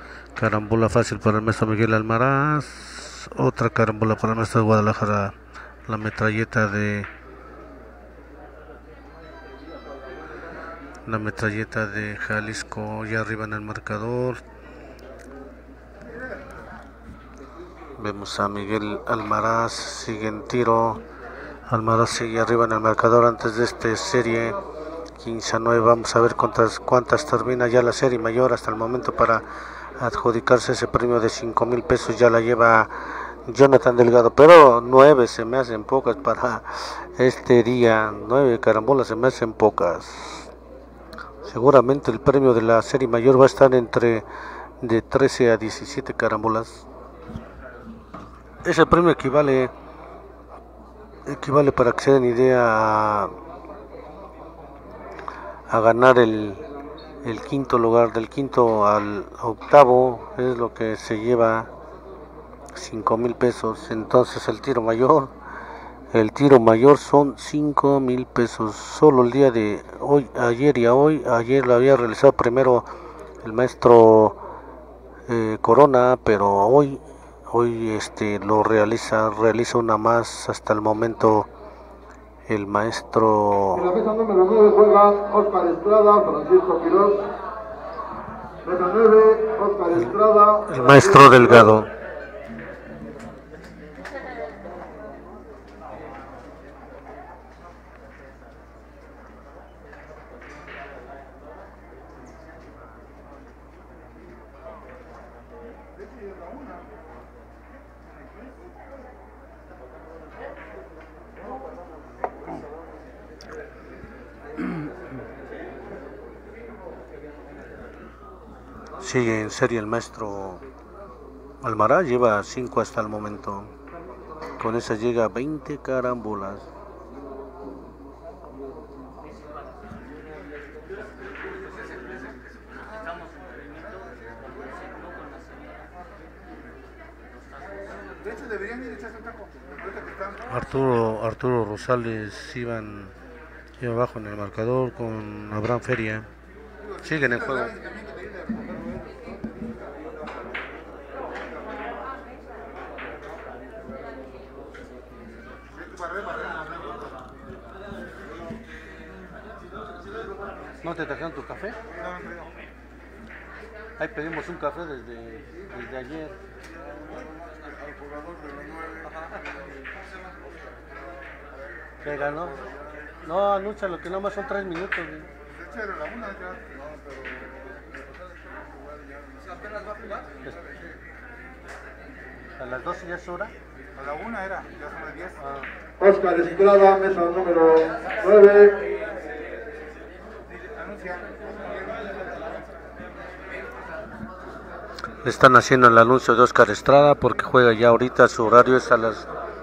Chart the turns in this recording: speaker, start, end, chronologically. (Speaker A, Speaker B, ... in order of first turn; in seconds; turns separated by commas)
Speaker A: 0.3-5.3, Speaker A: 5.9-7.1, Speaker A: 11.1-14.4, Speaker A: 17.9-21.0, Speaker A: 21.7-24.6, Speaker A: 25.2-40.5, Speaker A: 41.4-44.3, Speaker A: 44.8-46.8, Speaker A: 48.6-49.7, Speaker A: 51.2-53.3, Speaker A: 55.7-56.7, Speaker A: 57.2-61.7, Speaker A: 62.7-65.3, Speaker A: 66.1-72.9, Speaker A: 73.4-74.4, Speaker A: 75.3-81.5, Speaker A: 82.5-83.9, Speaker B: 83.8-87.3, Speaker B: 88.6-91.7, Speaker A: 90.7-91.9, Speaker A: 119.0-120.6, Speaker A: 121.6-123.7, Speaker A: 124.6-126.7, Speaker C: 138.1-140.5, Speaker A: 140.5-143.1, Speaker A: 143.8-146.3, Speaker A: 147.0-147.8, Speaker C: 147.8-149.0, Speaker C: 155.9-156.7, Speaker A: 160.8-161.8, Speaker C: 162.0-162.5, Speaker A: 164.0-166.4, Speaker A: 172.0-172.6, Speaker A: 173.2-175.3, Speaker C: 175.5-177.2, Speaker A: 182.6-183.5, Speaker C: 183.9-185.4, Speaker A: 185.4-185.7, Speaker B: 186.0-188.9, Speaker C: 190.7-192.6, Speaker A: 195.2-199.3